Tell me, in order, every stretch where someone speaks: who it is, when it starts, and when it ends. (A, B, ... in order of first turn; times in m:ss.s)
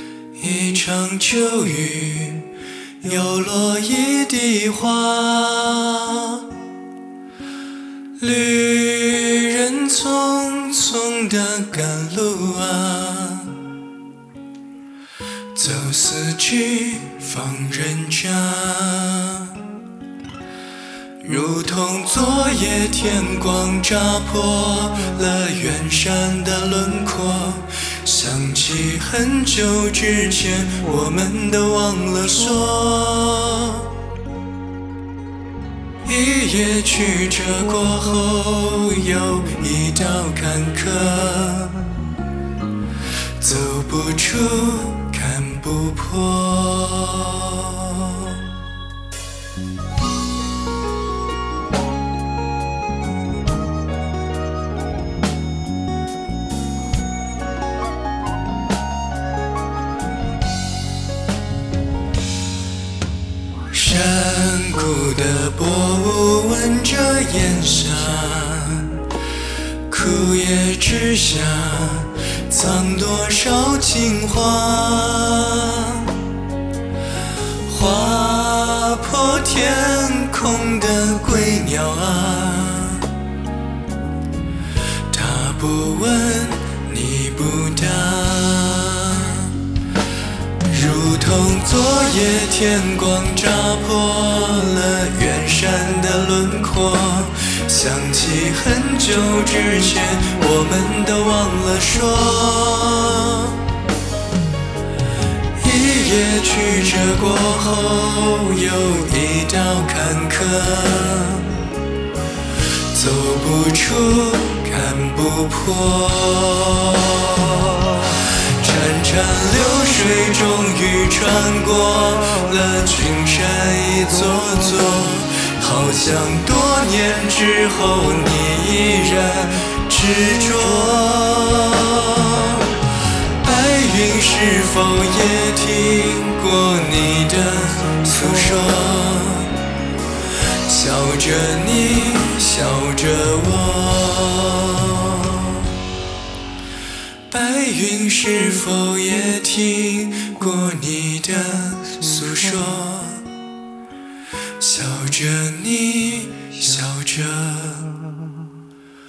0:00.3-0:06.6 A
0:08.2-0:13.8 A
0:15.5-0:19.8 A
0:21.2-0:34.0 A
0:36.0-0:42.2 A
0:43.4-0:48.6 A
1:03.7-1:09.2 A
1:09.8-1:16.3 A
1:17.6-1:23.2 A
1:25.1-1:29.7 A
1:30.7-1:43.7 A
1:45.6-1:51.8 A
1:52.8-2:19.6 A
2:20.5-2:25.8 A
2:27.3-2:33.4 A
2:34.6-2:38.5 A